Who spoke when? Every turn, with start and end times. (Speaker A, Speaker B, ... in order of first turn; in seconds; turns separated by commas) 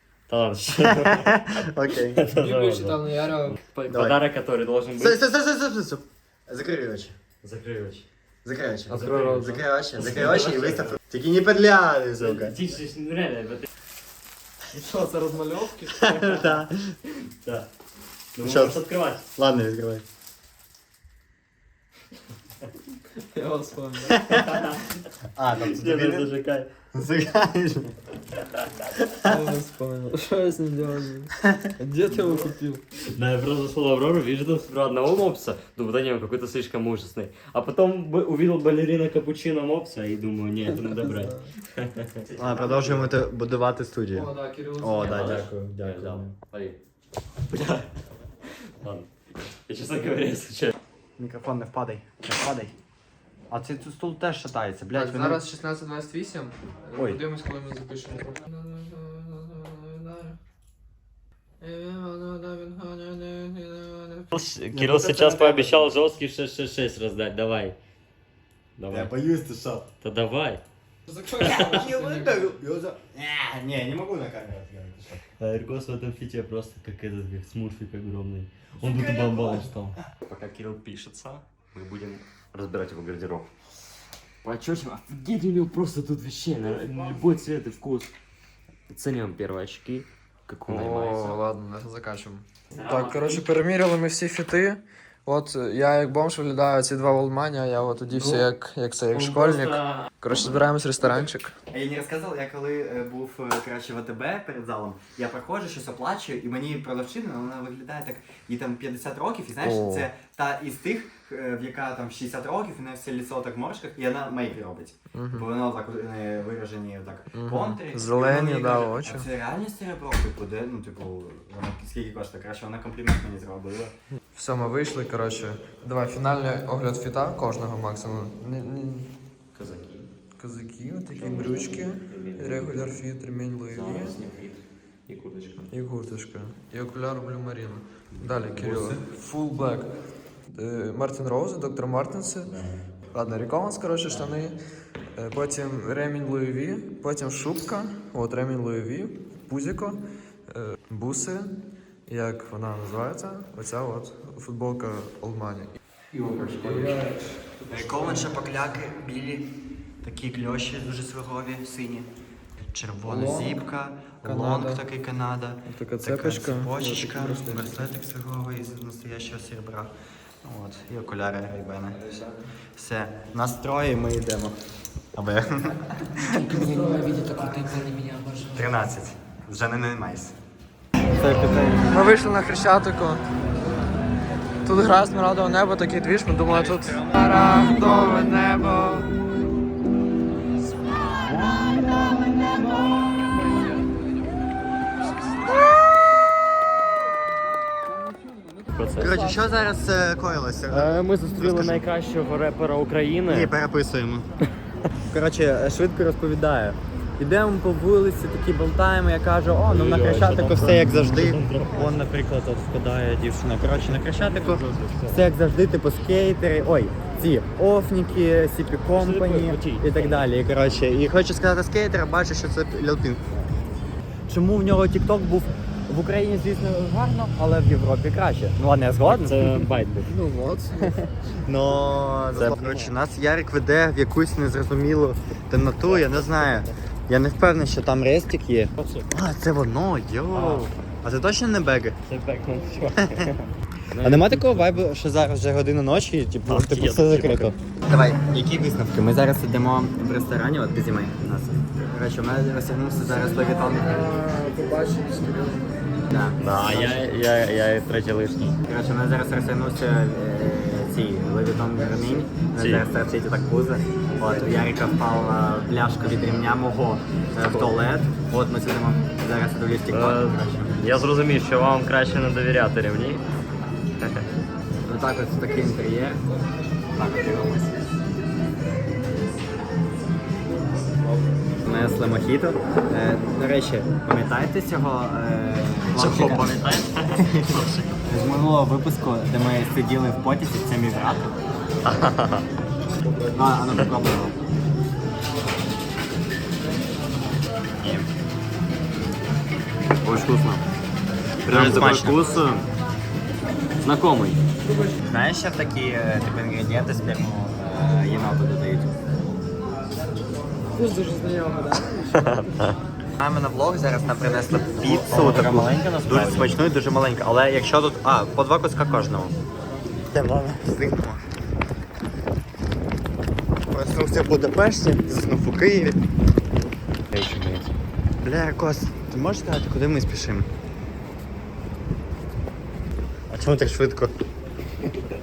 Speaker A: 0.3-1.4, Speaker B: 0.7-2.2, Speaker A: 2.2-5.2, Speaker C: 2.2-3.6, Speaker B: 3.9-4.2, Speaker B: 5.0-7.1, Speaker A: 7.4-8.1, Speaker B: 8.4-12.6, Speaker A: 8.9-11.0, Speaker C: 9.0-9.4, Speaker A: 12.2-13.7, Speaker C: 14.7-16.4, Speaker B: 15.9-16.9, Speaker A: 17.4-17.7, Speaker A: 18.3-19.2, Speaker B: 18.4-20.0, Speaker C: 23.2-24.2, Speaker B: 24.1-24.7, Speaker A: 24.3-24.9, Speaker B: 25.3-26.3, Speaker A: 25.6-26.7, Speaker B: 26.9-27.9, Speaker B: 29.0-29.5, Speaker C: 29.2-32.8, Speaker B: 31.4-31.7, Speaker A: 33.1-43.2, Speaker C: 40.8-41.5, Speaker B: 42.4-46.4, Speaker C: 44.1-45.5, Speaker A: 44.9-46.8, Speaker A: 47.5-47.9, Speaker A: 48.6-49.1, Speaker A: 49.7-50.8, Speaker B: 51.2-52.7, Speaker B: 53.5-55.4, Speaker C: 54.9-60.4, Speaker C: 61.6-64.3, Speaker A: 64.3-67.8, Speaker B: 64.7-65.9, Speaker A: 68.8-69.1, Speaker B: 68.9-69.9, Speaker A: 70.0-70.6, Speaker C: 71.1-72.5, Speaker B: 71.4-75.2, Speaker A: 75.4-83.5, Speaker B: 78.8-79.9, Speaker A: 84.4-88.1, Speaker A: 88.9-91.4, Speaker C: 90.6-101.5, Speaker A: 92.7-93.6, Speaker A: 98.1-98.5, Speaker A: 99.1-100.1, Speaker B: 101.7-123.9, Speaker C: 109.6-110.1, Speaker C: 115.1-115.4, Speaker C: 117.3-119.3, Speaker C: 124.3-129.1, Speaker A: 129.5-130.1, Speaker C: 130.4-134.2, Speaker A: 131.1-133.0, Speaker A: 133.7-135.7, Speaker C: 135.7-139.9, Speaker A: 138.1-139.0, Speaker C: 140.5-142.5, Speaker A: 142.4-142.9, Speaker C: 143.1-144.6, Speaker A: 144.1-144.4, Speaker C: 145.2-151.5, Speaker C: 152.1-155.8, Speaker B: 156.1-157.0, Speaker C: 156.5-158.3, Speaker A: 156.6-156.9, Speaker B: 157.7-159.5, Speaker B: 160.0-162.1, Speaker B: 162.7-172.0, Speaker C: 163.0-163.6, Speaker C: 164.2-164.8, Speaker C: 165.7-167.8, Speaker C: 172.0-172.5, Speaker B: 172.7-174.6, Speaker B: 175.1-176.6, Speaker A: 176.4-178.5, Speaker C: 176.5-177.9, Speaker B: 178.5-180.3, Speaker B: 181.2-182.1, Speaker C: 181.9-183.2, Speaker C: 184.6-189.1, Speaker B: 186.5-188.0, Speaker A: 198.7-199.3, Speaker B: 199.0-201.9, Speaker A: 200.7-203.5, Speaker B: 203.3-204.3, Speaker B: 205.1-223.5, Speaker A: 209.7-212.0, Speaker A: 213.8-215.2, Speaker A: 218.9-220.3, Speaker B: 224.3-229.4, Speaker A: 229.0-230.1, Speaker C: 230.1-230.9, Speaker B: 230.8-242.0, Speaker A: 232.3-232.9, Speaker A: 235.8-236.7, Speaker A: 238.8-239.1, Speaker A: 240.3-240.7, Speaker A: 242.1-244.8, Speaker B: 242.9-243.3, Speaker B: 244.0-254.2, Speaker A: 246.4-247.5, Speaker C: 253.1-256.0, Speaker B: 256.1-257.1, Speaker A: 256.4-258.6, Speaker B: 258.6-270.7, Speaker A: 262.6-262.9, Speaker A: 267.4-267.8, Speaker A: 269.9-273.2, Speaker A: 274.0-274.3, Speaker B: 274.8-276.2, Speaker B: 276.9-277.8, Speaker B: 281.6-286.6, Speaker A: 285.9-287.9, Speaker B: 287.1-291.4, Speaker A: 291.8-292.4, Speaker B: 293.3-294.3, Speaker B: 297.8-298.1, Speaker A: 300.0-300.6, Speaker A: 301.4-302.6, Speaker B: 301.5-302.4, Speaker A: 303.8-304.4, Speaker B: 305.0-309.0, Speaker C: 310.7-312.5, Speaker A: 312.1-312.8, Speaker B: 313.2-319.3, Speaker A: 314.8-316.6, Speaker B: 320.1-321.2, Speaker B: 323.7-326.0, Speaker A: 327.1-327.8, Speaker B: 328.2-330.5, Speaker B: 333.3-334.1